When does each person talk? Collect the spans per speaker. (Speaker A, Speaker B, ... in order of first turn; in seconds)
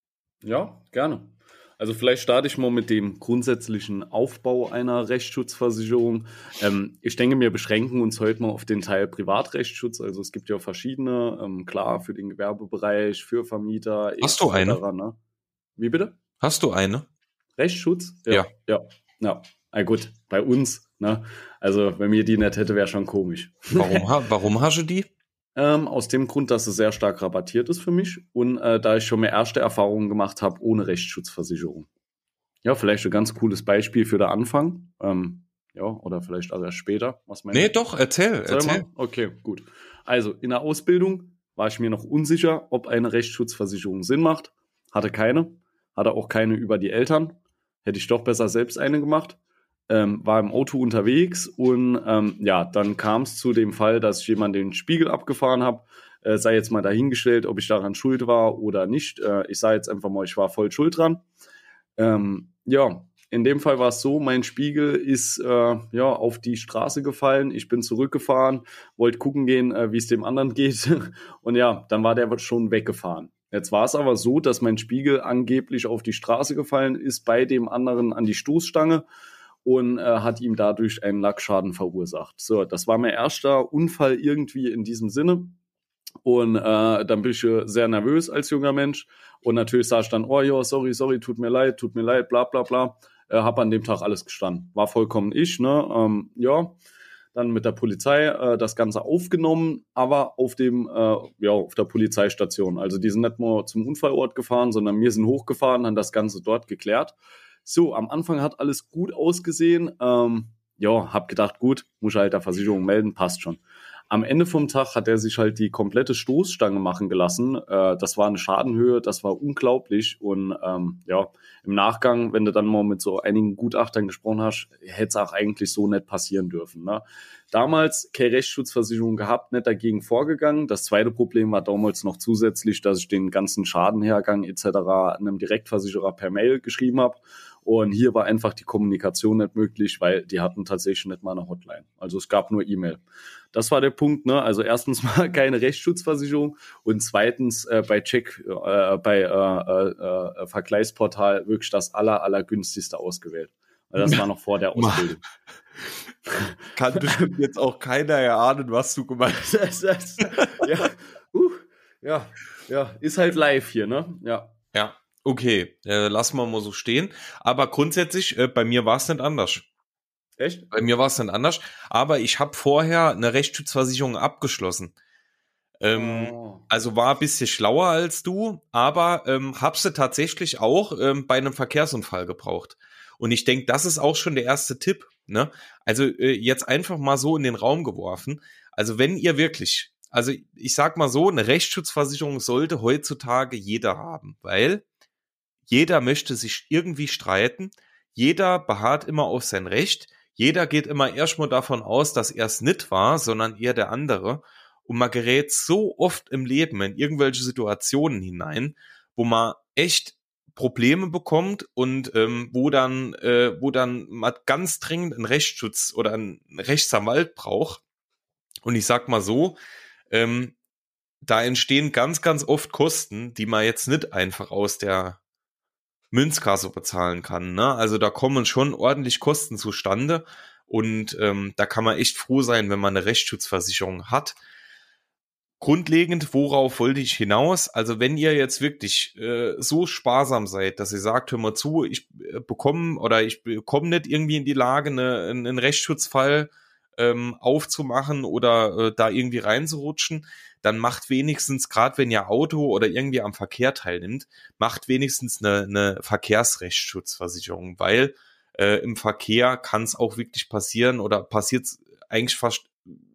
Speaker A: 0.4-15.2, 15.8-16.2, 17.6-24.1, 25.6-31.9, 32.6-37.7, 38.5-49.4, 49.9-61.2, 62.0-79.1, 79.6-85.6, 86.2-96.8, 97.3-143.0, 143.5-155.2, 156.3-157.3, 159.3-164.6, 170.4-170.7, 175.9-176.7
Speaker B: 14.2-14.8, 16.4-17.1, 23.8-25.1, 37.5-38.9, 154.8-155.1, 156.7-159.5, 160.2-160.7, 164.7-169.7, 170.7-174.9, 175.8-194.8, 195.7-217.8, 218.6-219.6, 220.1-220.6, 221.2-225.2, 226.1-234.4, 235.6-263.0